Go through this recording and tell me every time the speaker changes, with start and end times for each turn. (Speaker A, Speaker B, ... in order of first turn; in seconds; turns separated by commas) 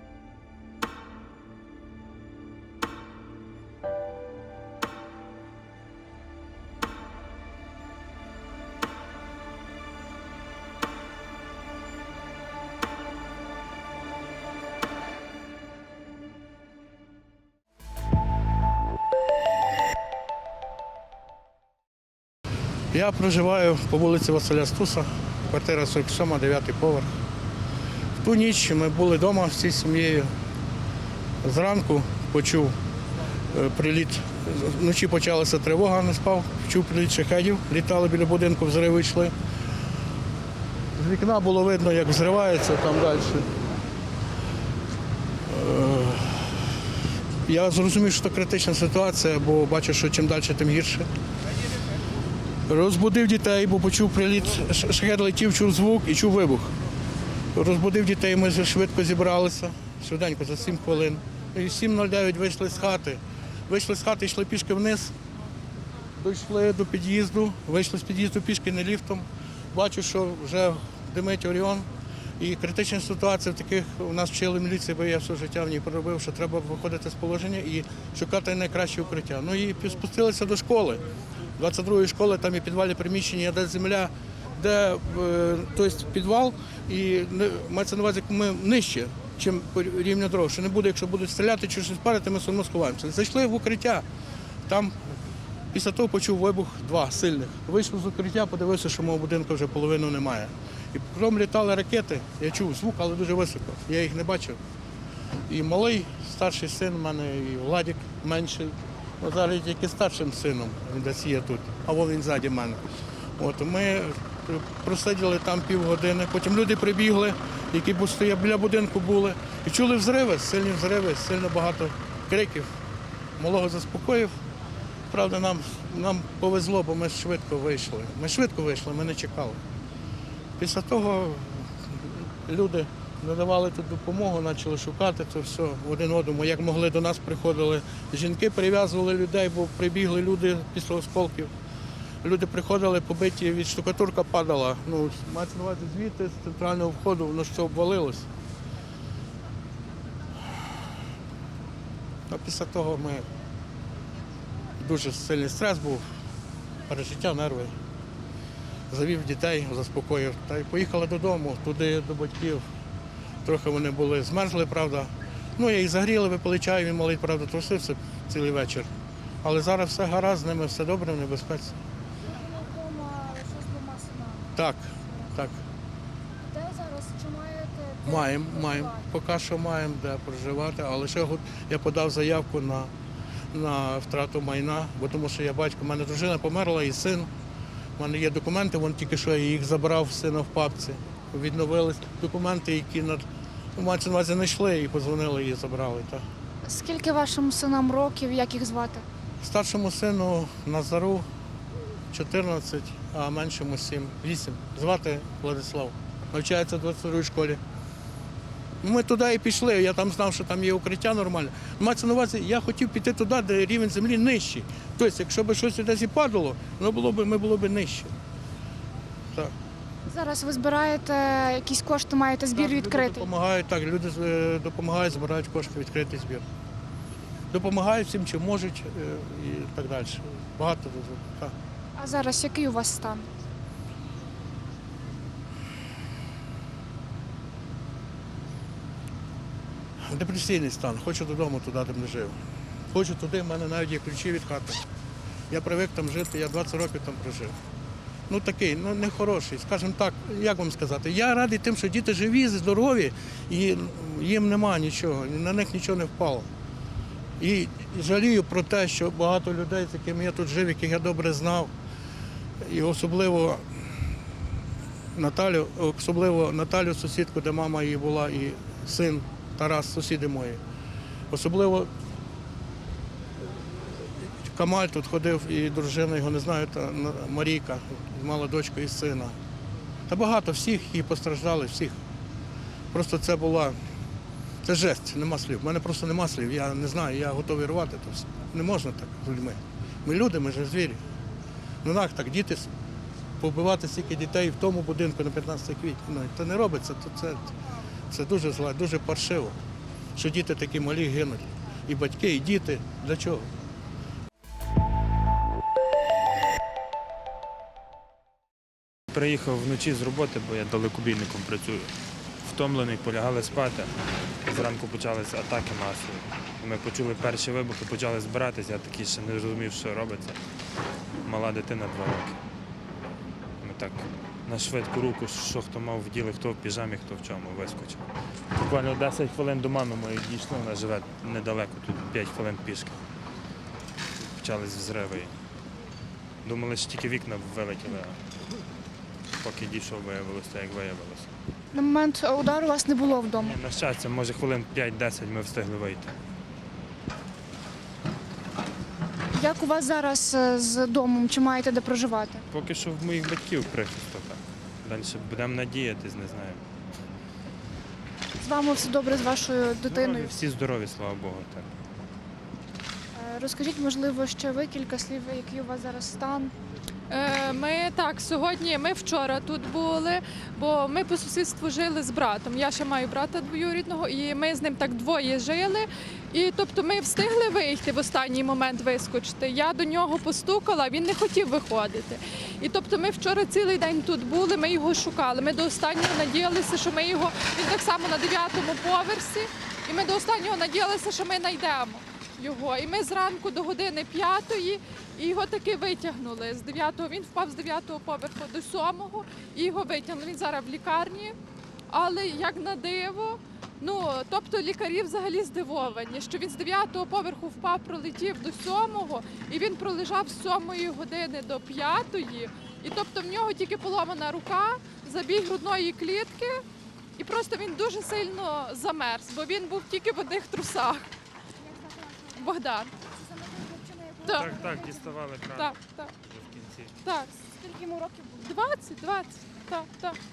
Speaker A: 22.9-27.1, Speaker A: 28.2-30.3, Speaker A: 31.4-32.7, Speaker A: 33.5-39.3, Speaker A: 41.0-43.5, Speaker A: 45.5-46.5, Speaker A: 47.5-51.1, Speaker A: 52.7-56.7, Speaker A: 57.5-65.1, Speaker A: 66.2-71.9, Speaker A: 72.4-81.0, Speaker A: 81.6-94.0, Speaker A: 94.7-94.9, Speaker A: 95.7-104.6, Speaker A: 105.5-112.8, Speaker A: 113.4-122.7, Speaker A: 123.4-124.3, Speaker A: 125.1-129.6, Speaker A: 130.6-141.5, Speaker A: 142.2-148.3, Speaker A: 152.3-153.3, Speaker A: 154.8-156.0, Speaker A: 156.9-157.7, Speaker A: 158.9-162.6, Speaker A: 163.4-168.9, Speaker A: 169.4-171.8, Speaker B: 172.3-174.6, Speaker A: 174.6-175.6, Speaker B: 176.5-179.1, Speaker A: 178.1-182.9, Speaker A: 183.5-187.3, Speaker A: 188.0-193.2, Speaker A: 193.8-196.2, Speaker B: 196.7-199.1, Speaker A: 199.4-201.3, Speaker A: 202.1-207.6, Speaker A: 208.8-218.1, Speaker B: 220.1-223.3, Speaker A: 222.5-226.4, Speaker A: 227.5-231.5, Speaker B: 232.0-233.3, Speaker A: 240.1-242.3, Speaker A: 242.9-244.8, Speaker A: 245.5-247.5, Speaker A: 248.3-256.5, Speaker A: 257.4-261.7, Speaker A: 262.6-263.6, Speaker A: 265.1-270.6, Speaker A: 271.3-271.9, Speaker A: 274.5-279.4, Speaker A: 280.1-282.0, Speaker A: 282.9-283.8, Speaker A: 284.6-291.0, Speaker A: 291.8-292.7, Speaker A: 293.4-297.5, Speaker A: 298.1-299.6, Speaker A: 300.1-303.5, Speaker C: 309.1-311.9, Speaker C: 312.4-313.9, Speaker C: 314.4-320.4, Speaker C: 321.2-322.4, Speaker C: 323.6-333.0, Speaker C: 334.2-335.3, Speaker C: 336.4-338.2, Speaker C: 339.4-341.3, Speaker B: 341.7-343.6, Speaker C: 343.4-346.1, Speaker B: 349.3-352.4, Speaker C: 352.5-356.6, Speaker B: 358.4-360.4, Speaker C: 359.8-361.7, Speaker B: 363.1-366.5, Speaker D: 367.1-401.4, Speaker D: 401.9-416.6, Speaker D: 417.2-421.1, Speaker D: 422.4-422.9, Speaker B: 423.2-425.2, Speaker D: 424.2-424.6, Speaker C: 424.3-427.0, Speaker D: 425.6-426.1, Speaker D: 427.0-427.4, Speaker B: 427.4-428.6, Speaker D: 428.4-430.2